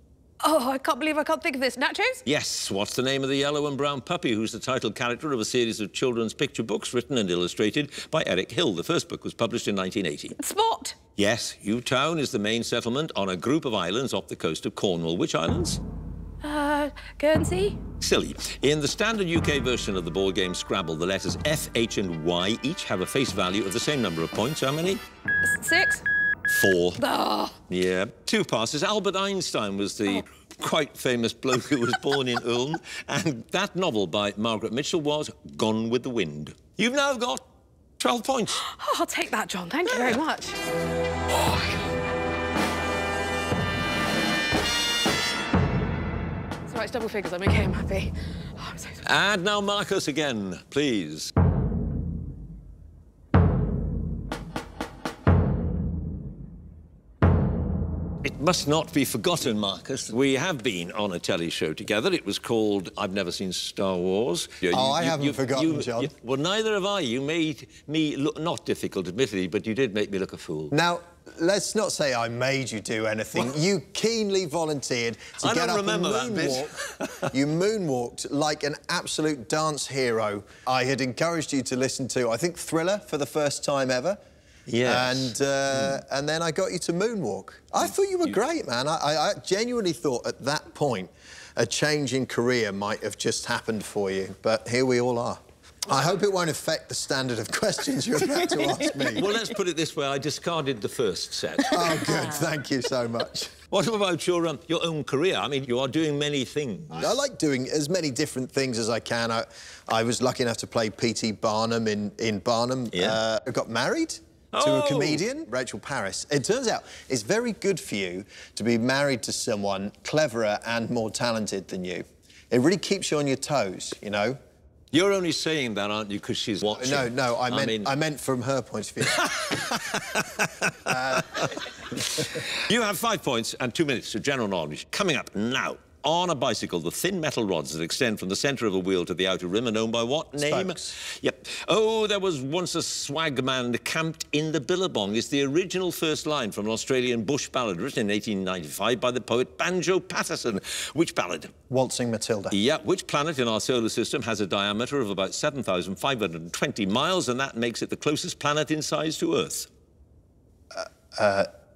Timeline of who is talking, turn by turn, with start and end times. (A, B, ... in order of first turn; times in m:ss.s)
0:00.4-0:02.2 A
0:02.2-0:10.3 B
0:10.4-0:11.0 A
0:11.2-0:15.8 B
0:16.4-0:17.8 A
0:18.0-0:25.0 B
0:25.4-0:26.0 A
0:26.5-0:27.0 B
0:27.0-0:27.6 A
0:27.7-0:37.4 B
0:38.0-0:38.6 B
0:38.6-0:40.6 A
0:46.7-0:49.0 A
0:49.0-0:51.3 B
0:58.2-1:10.7 B
1:04.7-1:06.1 C
1:10.7-1:16.7 C
1:15.4-1:17.3 B
1:17.3-1:24.2 C
1:24.7-1:26.0 B
1:24.8-1:39.3 C
1:39.1-1:42.2 B
1:41.7-1:43.5 C
1:43.7-1:47.1 B
1:46.9-2:04.4 C
1:52.9-1:53.2 B
1:54.5-1:55.2 B
2:04.9-2:07.9 B
2:06.8-2:10.2 C
2:09.0-2:31.5 B
2:10.8-2:11.5 C
2:20.4-2:20.8 C
2:31.7-2:32.5 C
2:32.5-2:39.7 B
2:40.7-2:41.5 C